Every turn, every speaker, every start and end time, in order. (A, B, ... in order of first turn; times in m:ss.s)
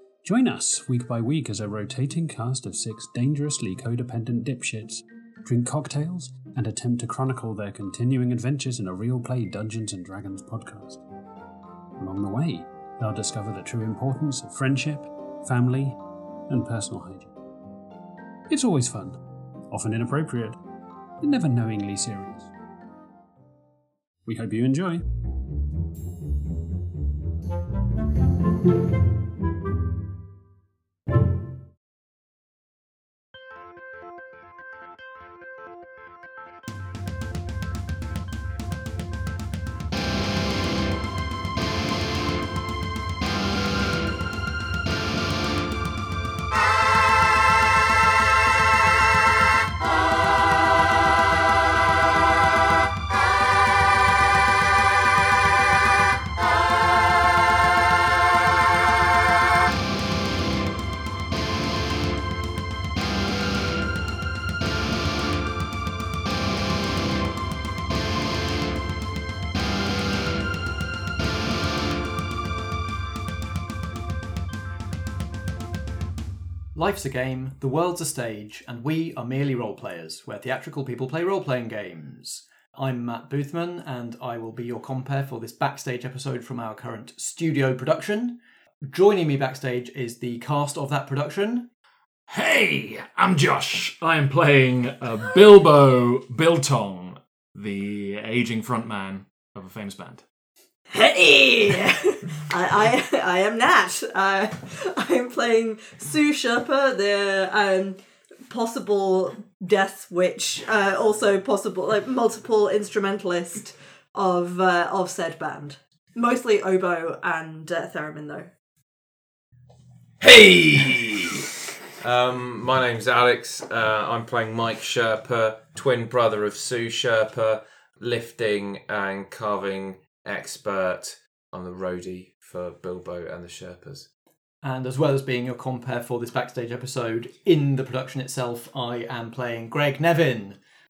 0:00.2-0:11.0 A
0:12.0-0:16.0 A
0:16.5-0:17.3 A
0:18.5-0:19.2 A
0:19.7-0:20.6 A
0:21.2-0:22.5 A
0:24.3-0:25.0 A
1:16.7-1:31.7 B
1:32.3-1:40.2 C
1:40.9-1:48.0 D
1:48.5-1:58.5 D
2:00.2-2:14.1 E
2:14.6-2:20.6 B